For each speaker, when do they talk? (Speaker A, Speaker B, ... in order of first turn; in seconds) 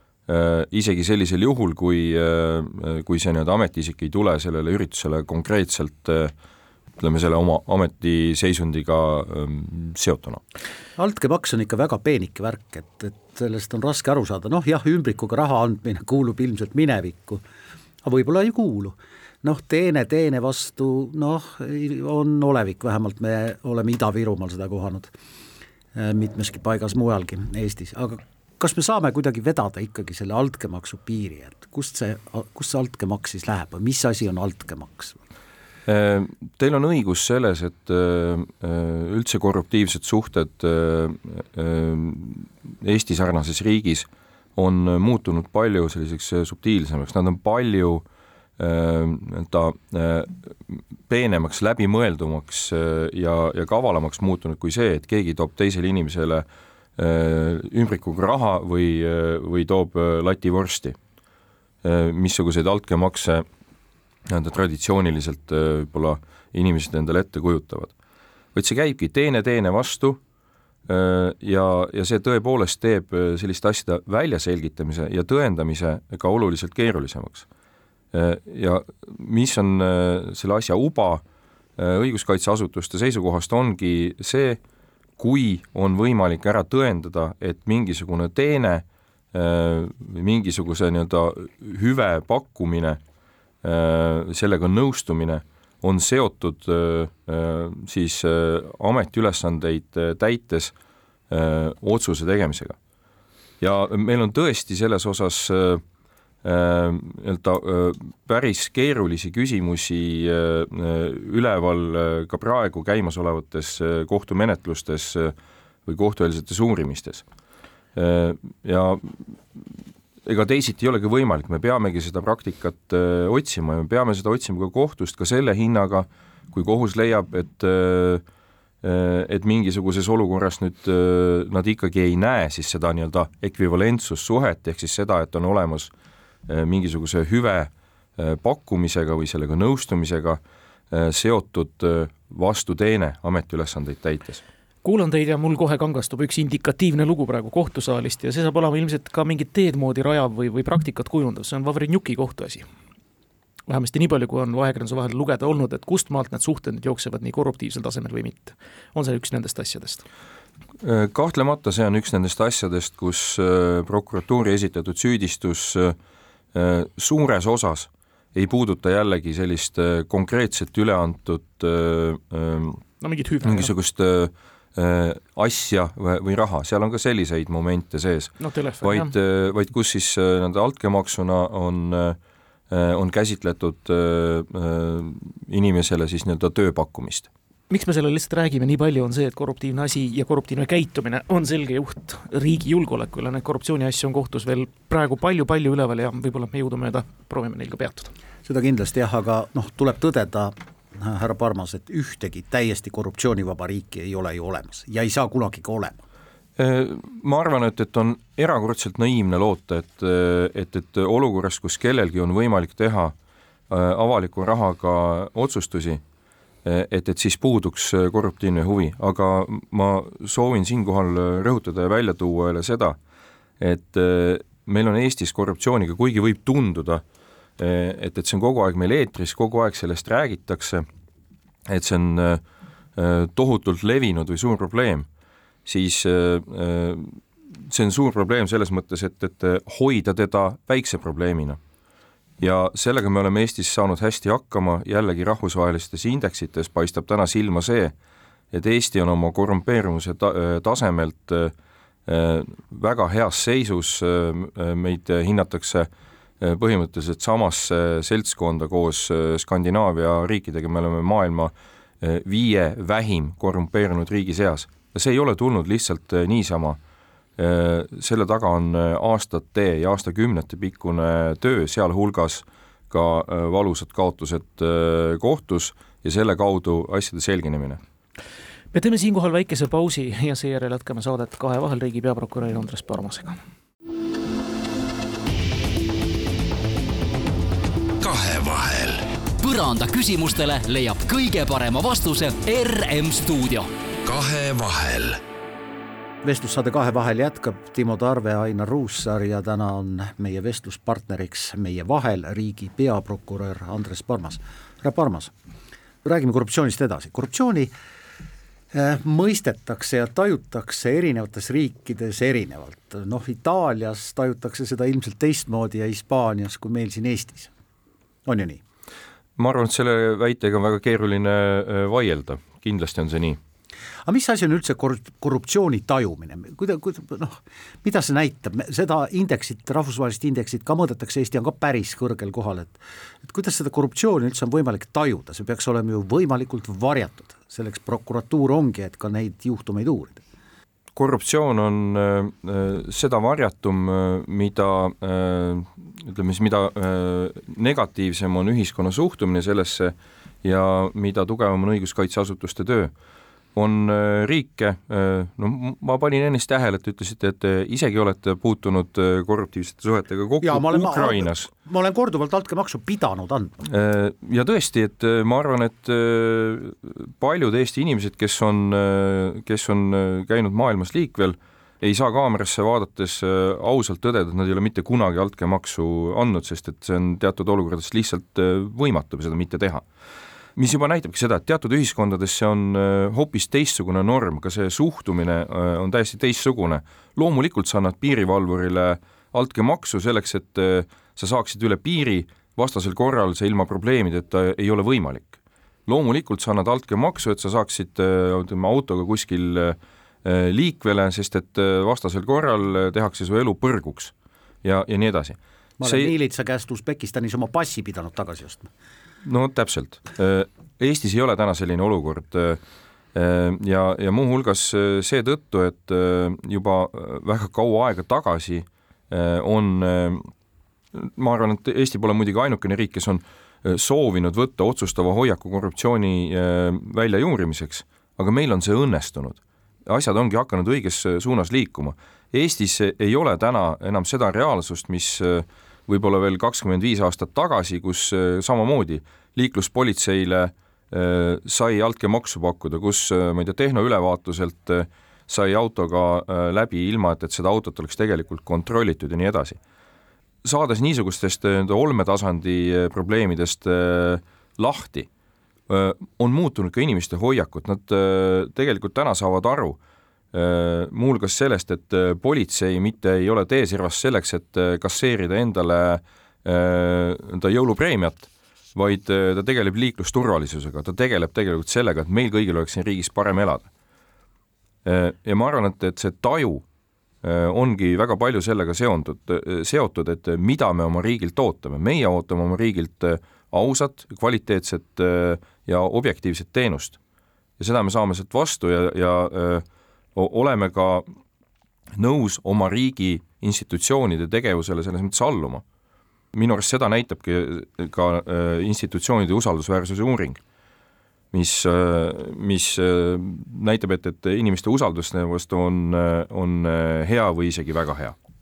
Speaker A: 0.3-6.3, 7.0-10.4, 35.9-48.0, 48.6-56.5, 57.0-61.0, 61.8-63.5, 64.3-67.9, 68.5-70.2, 70.9-77.5, 78.1-81.2, 81.8-84.6, 85.2-93.0, 93.6-100.7, 101.3-102.8, 103.6-105.8, 106.4-115.3, 115.9-117.2, 118.0-119.6, 120.2-128.2, 128.8-135.9, 136.5-144.4, 160.8-166.0, 166.5-172.8, 173.4-182.2, 182.7-187.3, 206.6-213.2, 213.7-216.0, 216.7-223.0, 223.6-227.0, 227.6-230.8, 231.7-232.4, 233.0-235.1, 235.7-241.6, 242.4-247.9, 248.5-251.5, 252.1-255.9, 256.4-266.8, 267.4-277.8, 319.4-323.4, 341.0-352.9, 353.6-361.5, 363.6-379.9, 380.6-404.1, 404.6-406.1, 409.2-412.6, 413.1-420.3, 420.9-449.6, 450.4-455.1, 455.7-459.8, 460.3-473.7, 474.9-476.6, 477.2-487.0, 487.6-489.6, 490.1-491.1, 492.0-495.6, 496.3-500.4, 501.3-508.1
Speaker B: 11.0-17.4, 18.0-25.1, 25.9-35.2, 198.4-206.0, 296.2-305.3, 306.0-307.7, 308.7-317.5, 318.2-318.6, 324.1-340.2, 360.4-363.6, 405.8-408.7
Speaker C: 144.8-152.7, 153.7-160.1, 173.0-173.7, 178.4-179.1, 187.7-198.1, 278.7-283.4
Speaker D: 288.0-289.1, 294.1-295.2
Speaker E: 289.4-293.7